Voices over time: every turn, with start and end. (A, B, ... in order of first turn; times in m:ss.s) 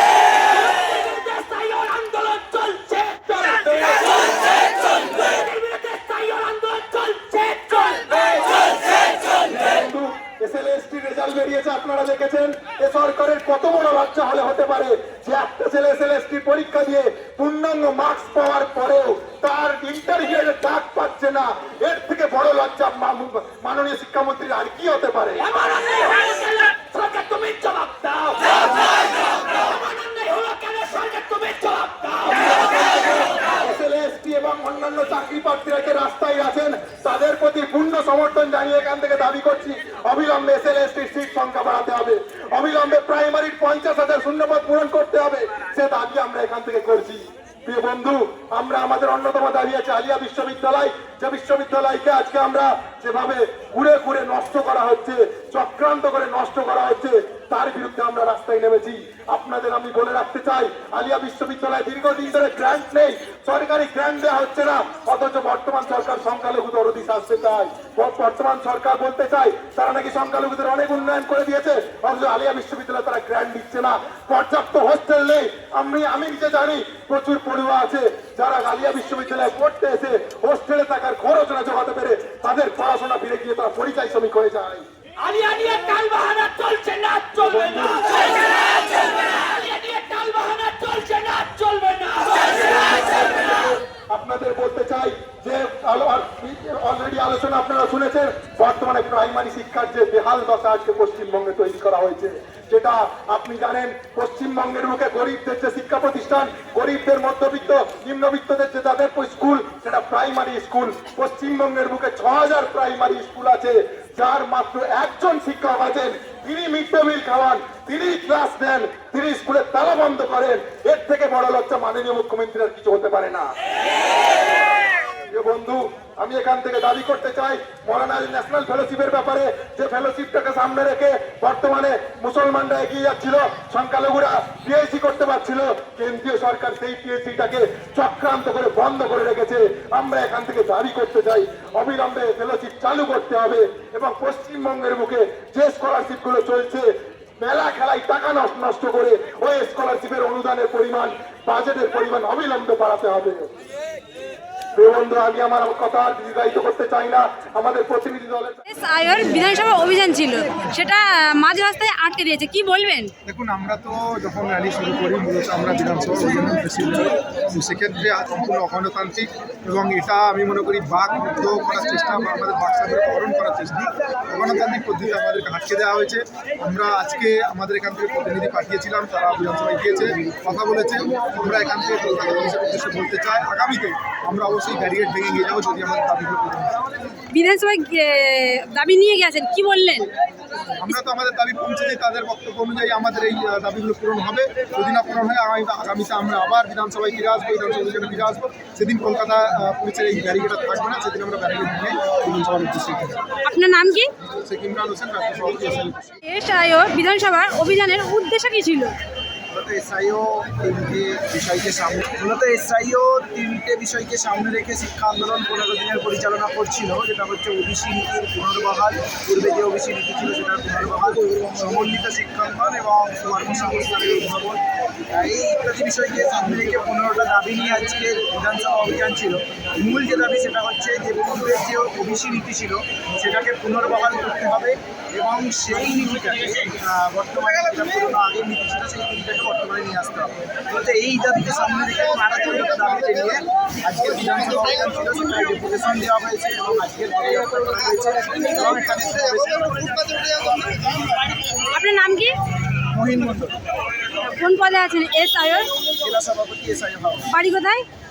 0:00.4-0:09.3 A
0:09.4-0:25.5 B
0:25.4-0:33.2 A
0:32.4-1:24.8 B
1:25.2-1:32.7 A
1:27.4-1:28.1 B
1:32.5-2:03.5 B
2:05.3-2:33.5 B
2:34.8-2:38.6 B
2:38.7-2:43.1 C
2:43.2-3:06.8 D
3:07.3-3:10.1 C
3:10.8-3:23.2 D
3:23.5-3:24.1 C
3:24.2-3:26.0 D
3:26.3-3:28.9 C
3:29.5-4:10.8 E
4:11.6-4:12.3 C
4:12.9-4:13.5 E
4:14.2-4:15.7 C
4:15.8-4:17.3 E
4:17.3-4:17.8 C